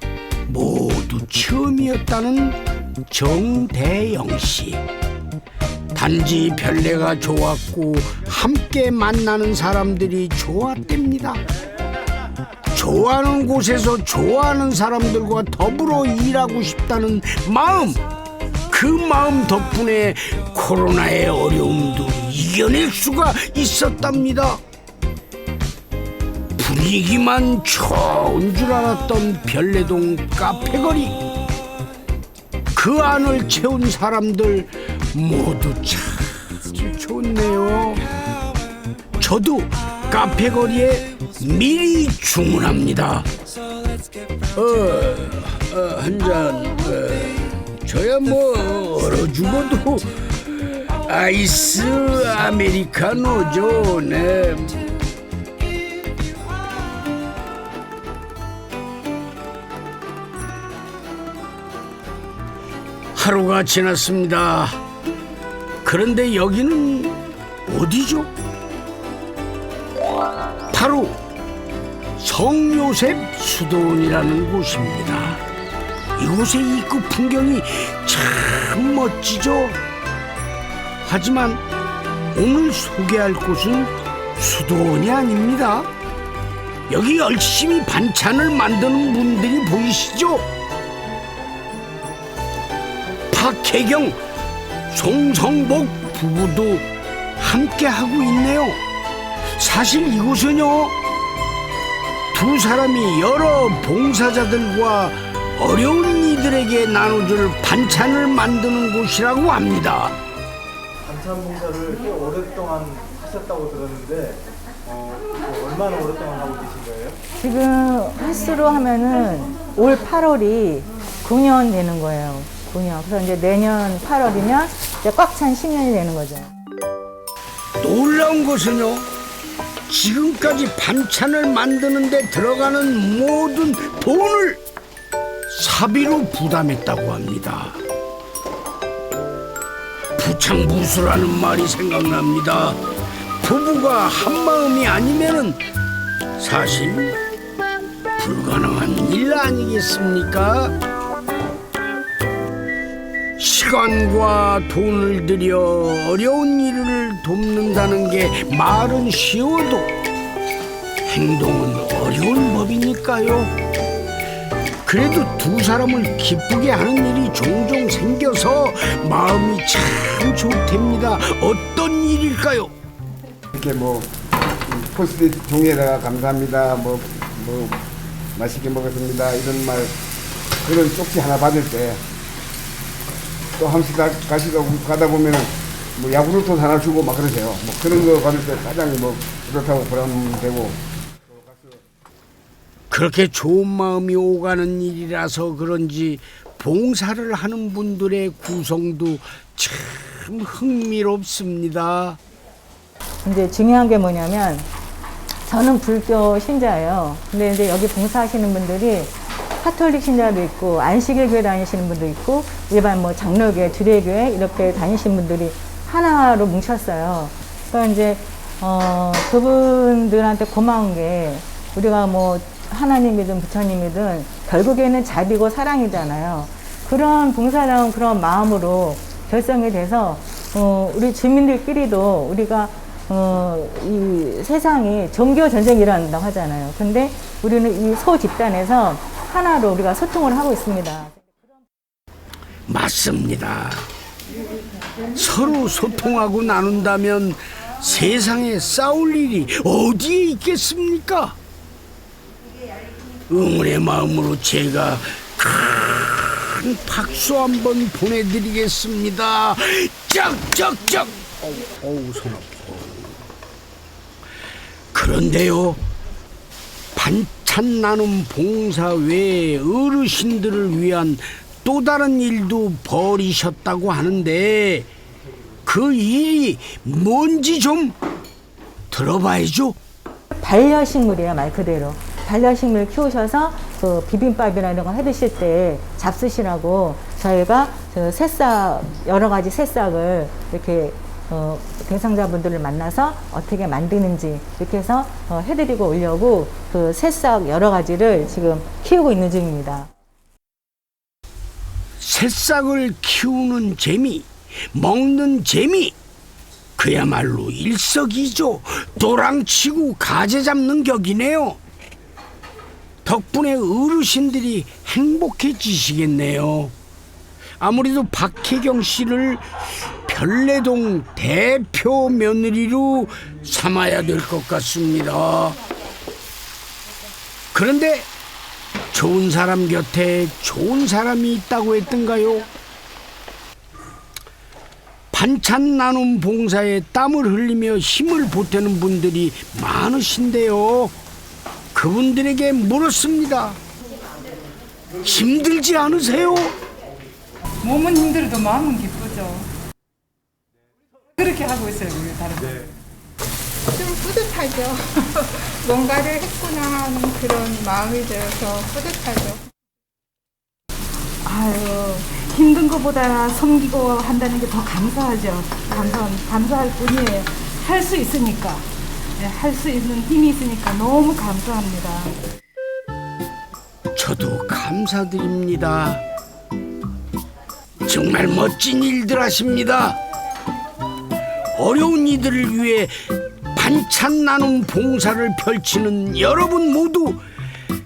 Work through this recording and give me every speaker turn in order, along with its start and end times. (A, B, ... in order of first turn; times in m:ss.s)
0:00.5-0:04.8 A
0:05.9-0:11.4 A
0:12.7-0:18.0 A
0:18.7-0:24.6 A
0:26.6-0:31.2 A
0:32.8-0:38.0 A
0:39.2-0:43.3 A
0:44.5-0:54.8 A
1:03.1-1:04.8 A
1:05.8-1:08.3 A
1:10.7-1:11.1 A
1:12.2-1:15.4 A
1:16.2-1:19.8 A
1:21.0-1:21.6 A
1:22.3-1:25.9 A
1:26.9-1:30.5 A
1:33.3-1:34.2 A
1:34.9-1:36.9 A
1:37.4-1:38.8 A
1:39.6-1:41.0 A
1:42.3-1:50.2 A
1:51.0-1:57.2 B
1:57.4-2:06.5 C
2:07.8-2:09.1 A
2:09.9-2:14.6 A
2:15.5-2:17.8 A
2:20.2-2:22.8 A
2:23.4-2:25.6 A
2:26.4-2:27.2 A
2:28.2-2:30.8 A
2:33.4-2:39.9 A
2:41.0-2:43.5 A
2:44.8-2:52.7 A
2:53.5-2:54.1 D
2:54.6-2:57.8 D
2:58.3-2:59.9 D
3:00.6-3:02.0 D
3:03.6-3:10.8 D
3:12.9-3:22.2 A
3:23.2-3:24.7 C
3:25.4-4:01.2 C
4:02.7-4:03.9 A
4:05.1-4:11.4 A
4:13.3-4:23.2 A
4:24.9-4:25.8 A
4:27.0-4:34.9 A
4:35.6-4:38.0 A
4:38.9-4:39.8 A
4:40.3-4:59.9 C
5:02.0-5:06.0 A
5:06.8-5:11.6 A
5:13.0-5:16.7 A
5:17.6-5:25.6 A
5:27.5-5:28.1 A
5:28.9-5:32.5 A
5:35.1-5:41.0 A
5:41.7-5:43.6 A
5:45.0-5:46.6 A
5:47.6-5:49.5 E
5:51.2-5:52.7 E
5:53.7-5:59.4 F
6:01.2-6:12.1 E
6:13.9-6:16.0 A
6:17.8-6:20.0 A
6:21.5-6:27.2 A